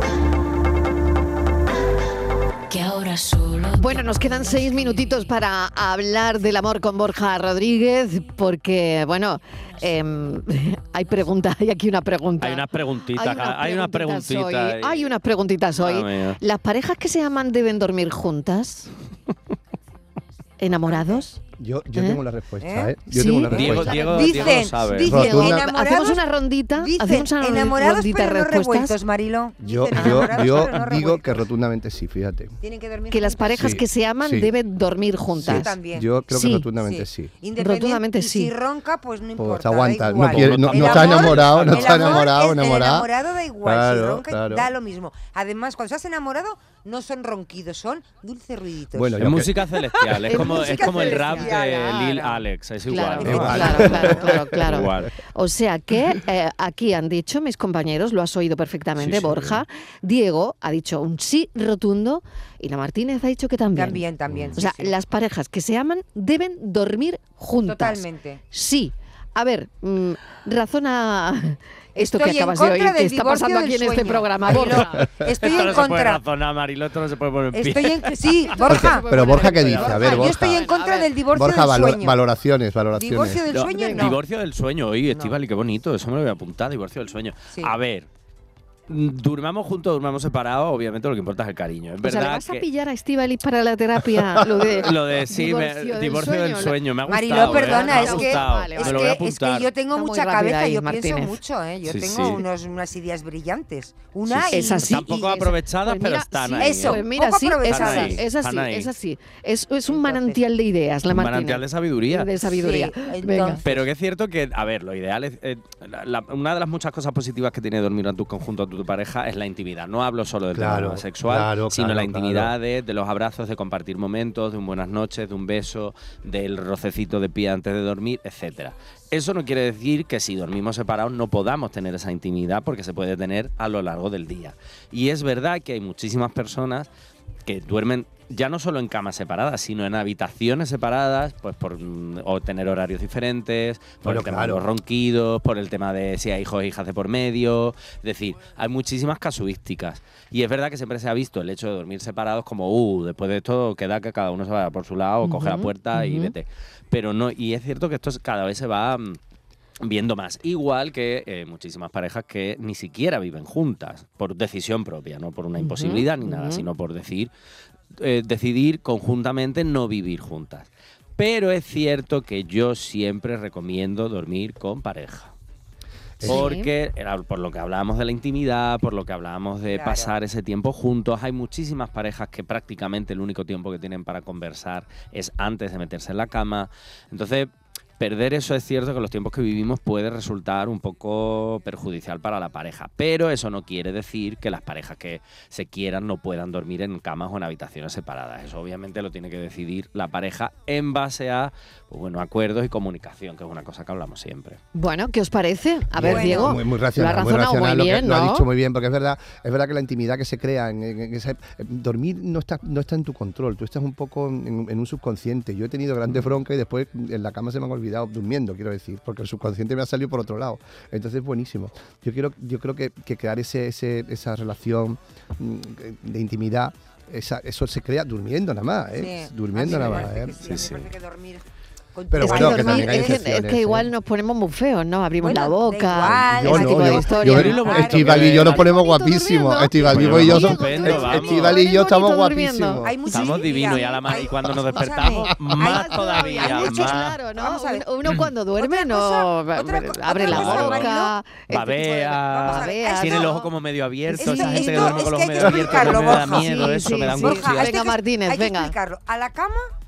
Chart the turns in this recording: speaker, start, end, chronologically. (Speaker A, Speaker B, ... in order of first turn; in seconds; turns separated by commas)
Speaker A: 2.7-5.2, Speaker B: 3.7-18.9, Speaker C: 12.4-15.1, Speaker C: 15.8-16.4, Speaker B: 20.6-21.4, Speaker D: 20.9-21.2, Speaker E: 21.6-24.0, Speaker B: 21.9-22.2, Speaker D: 22.6-22.9, Speaker B: 23.1-29.0, Speaker C: 23.5-25.2, Speaker D: 23.9-26.2, Speaker E: 25.1-25.6, Speaker D: 26.8-31.4, Speaker E: 29.6-32.5, Speaker B: 29.9-30.6, Speaker D: 32.6-33.8, Speaker B: 33.1-35.7, Speaker E: 33.5-34.5, Speaker D: 35.4-36.1, Speaker E: 35.4-37.3, Speaker B: 36.3-36.7, Speaker D: 36.8-49.2, Speaker B: 37.6-38.5, Speaker E: 39.4-43.1, Speaker C: 40.3-42.2, Speaker E: 43.6-44.7, Speaker E: 48.9-49.6, Speaker C: 49.2-55.1, Speaker D: 50.1-54.4, Speaker B: 50.2-51.5, Speaker B: 52.9-64.0, Speaker E: 53.2-54.9, Speaker C: 59.0-59.6, Speaker D: 63.7-65.0, Speaker B: 64.6-75.1, Speaker D: 67.6-68.4, Speaker D: 72.0-76.2, Speaker C: 75.4-78.6, Speaker D: 77.5-82.2, Speaker B: 78.5-81.1, Speaker E: 78.7-80.7, Speaker E: 81.3-83.4, Speaker D: 82.9-84.2, Speaker C: 83.5-88.1, Speaker B: 83.7-84.2, Speaker D: 85.1-85.4, Speaker C: 88.9-92.7, Speaker B: 92.0-99.2, Speaker C: 94.5-99.7, Speaker D: 97.1-105.3, Speaker B: 99.9-101.4, Speaker C: 101.8-102.4, Speaker C: 104.3-107.0, Speaker B: 104.5-113.6, Speaker D: 106.6-108.2, Speaker C: 107.7-108.9, Speaker D: 109.9-110.4, Speaker C: 111.1-112.4, Speaker D: 112.5-113.8, Speaker C: 113.6-136.9, Speaker E: 120.5-122.5, Speaker C: 137.5-159.2, Speaker E: 144.0-144.7, Speaker B: 155.2-156.3, Speaker C: 159.8-167.3, Speaker B: 165.6-166.7, Speaker C: 168.0-175.3, Speaker E: 176.2-176.5, Speaker C: 176.2-204.6, Speaker B: 176.2-176.7, Speaker D: 179.7-180.1, Speaker B: 204.8-208.5, Speaker E: 205.9-230.4, Speaker D: 206.0-206.6, Speaker D: 229.0-233.2, Speaker C: 229.7-230.9, Speaker E: 232.1-233.9, Speaker B: 232.2-244.2, Speaker D: 235.2-238.7, Speaker E: 236.0-243.0, Speaker C: 237.2-238.6, Speaker C: 239.8-241.6, Speaker D: 240.1-241.7, Speaker D: 242.8-251.2, Speaker C: 243.1-247.2, Speaker B: 245.6-251.8, Speaker C: 248.1-248.3, Speaker C: 250.2-250.9, Speaker C: 251.5-257.7, Speaker D: 251.7-253.5, Speaker B: 252.4-253.5, Speaker B: 254.1-255.1, Speaker D: 254.2-259.6, Speaker B: 255.7-258.7